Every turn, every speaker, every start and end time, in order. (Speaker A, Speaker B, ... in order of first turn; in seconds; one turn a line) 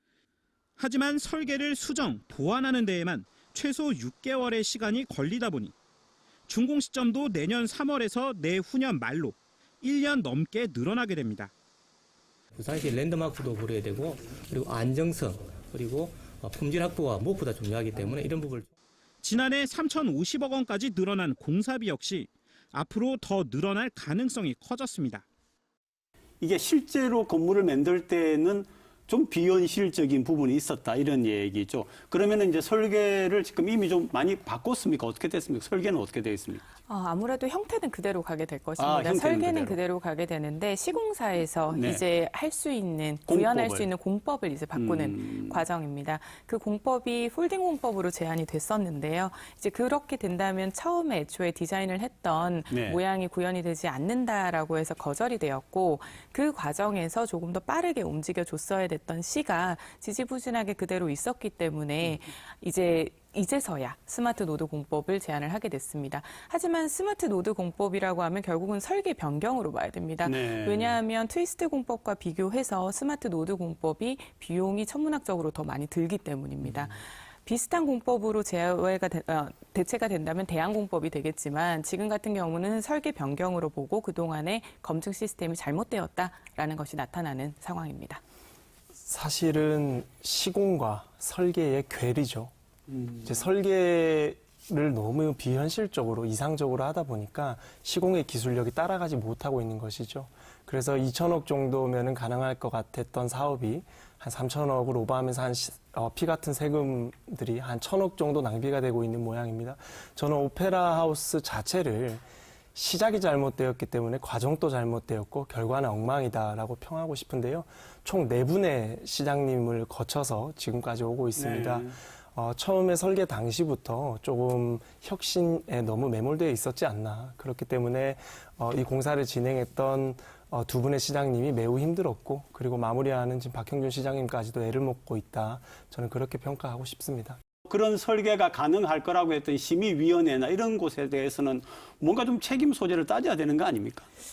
Speaker A: 0.8-5.7
Speaker A: 6.5-11.5
Speaker B: 12.5-18.7
Speaker A: 19.2-25.2
Speaker C: 26.4-36.6
Speaker D: 36.9-88.2
Speaker C: 38.8-39.8
Speaker C: 41.7-42.0
Speaker C: 43.3-43.9
Speaker C: 44.8-45.6
Speaker C: 52.7-53.0
Speaker C: 70.2-71.0
Speaker E: 89.0-92.5
Speaker C: 92.9-93.3
Speaker E: 93.2-112.2
Speaker E: 112.8-137.4
Speaker C: 121.4-122.0
Speaker C: 137.7-144.1